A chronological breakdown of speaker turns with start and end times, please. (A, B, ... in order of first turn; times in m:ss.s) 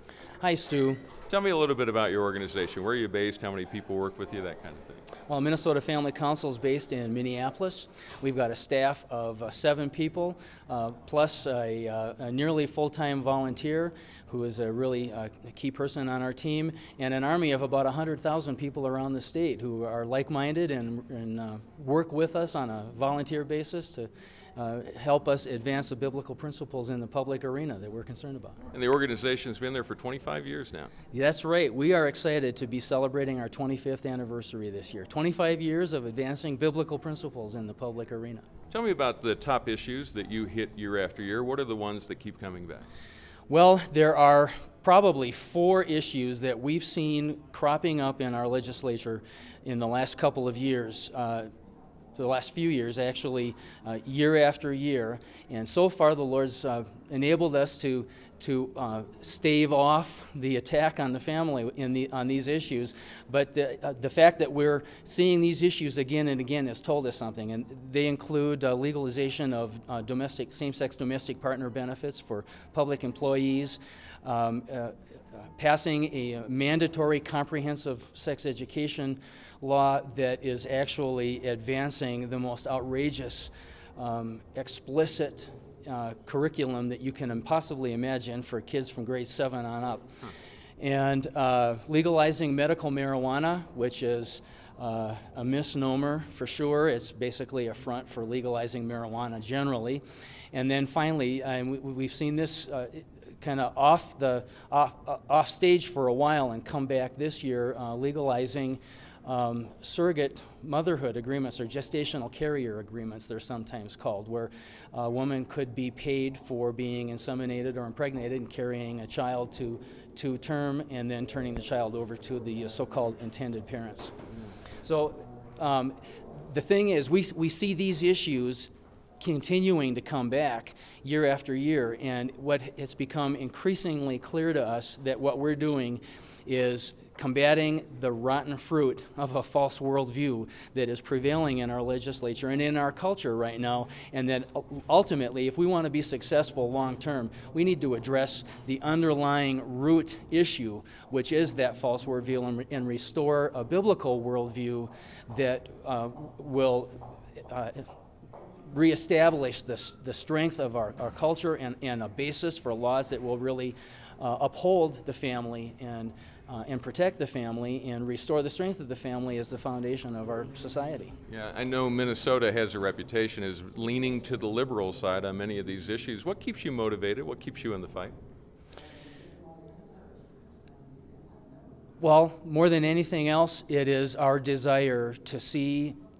0:00.4-0:01.0 A
0:01.3-0:05.0 B
0:05.3-0:28.6 A
0:28.7-0:30.9 B
0:31.1-0:38.5 A
0:38.7-0:42.9 B
0:43.5-0:51.5 A
0:52.2-1:30.1 A
1:30.8-2:04.2 A
2:04.8-2:37.9 A
2:38.7-2:51.2 A
2:51.3-2:58.2 B
3:02.0-3:06.0 A